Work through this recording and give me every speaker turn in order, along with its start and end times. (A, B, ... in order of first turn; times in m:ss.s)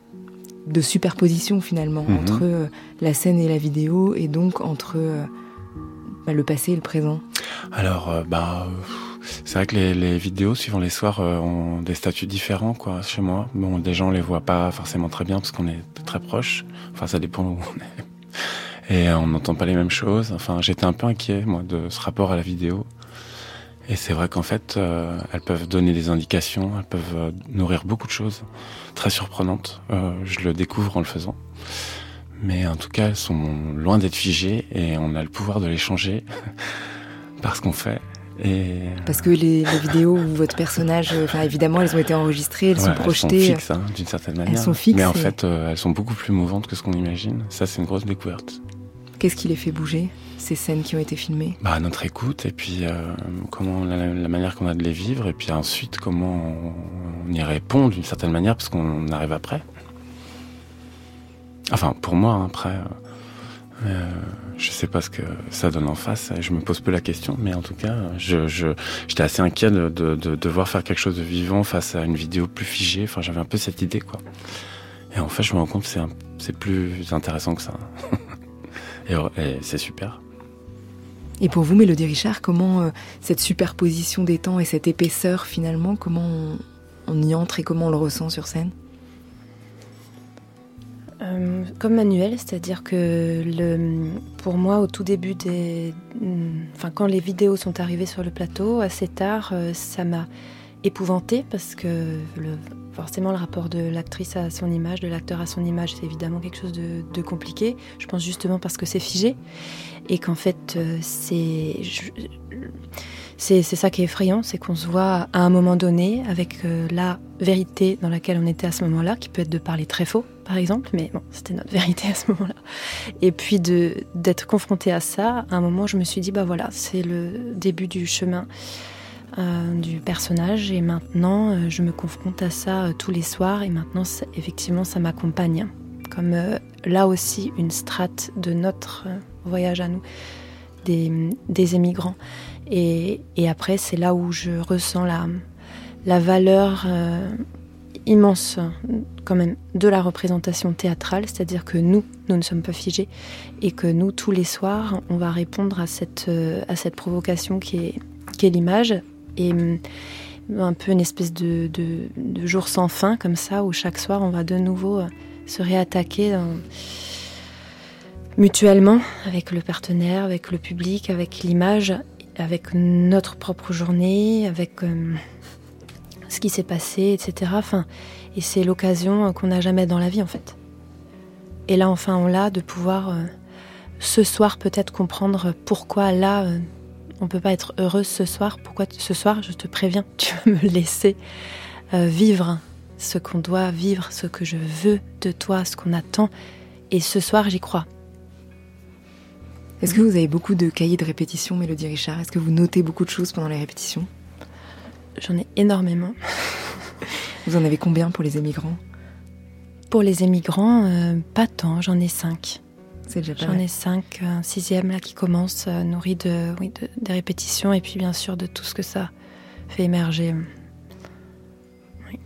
0:00.7-0:05.3 A
0:02.1-0:02.4 B
0:06.3-0:07.2 A
0:07.7-0:18.0 B
0:18.9-0:22.9 B
0:23.9-0:31.8 B
0:32.4-0:36.9 B
0:37.4-0:39.3 B
0:39.1-0:43.6 A
0:42.8-0:48.6 B
0:44.5-0:45.3 A
0:49.2-0:51.6 A
0:51.6-0:59.6 B
1:01.7-1:03.0 B
1:03.8-1:14.2 B
1:15.1-1:18.2 B
1:19.1-1:20.2 B
1:21.4-1:28.7 A
1:31.2-1:40.3 C
1:40.8-1:49.4 C
1:50.1-1:52.7 C
1:53.4-2:02.6 C
2:03.2-2:08.5 C
2:09.4-2:20.0 C
2:20.8-2:25.4 C
2:26.0-2:27.4 C
2:28.0-2:39.8 C
2:40.5-2:46.6 C
2:48.4-2:55.2 C
2:56.3-3:00.6 C
3:01.7-3:03.3 C
3:04.0-3:11.2 C
3:11.9-3:16.3 C
3:16.9-3:17.9 C
3:19.8-3:24.1 A
3:25.2-3:26.8 C
3:27.5-3:28.8 A
3:29.9-3:32.6 C
3:33.1-3:33.6 A
3:33.4-3:39.1 C
3:39.7-3:40.5 C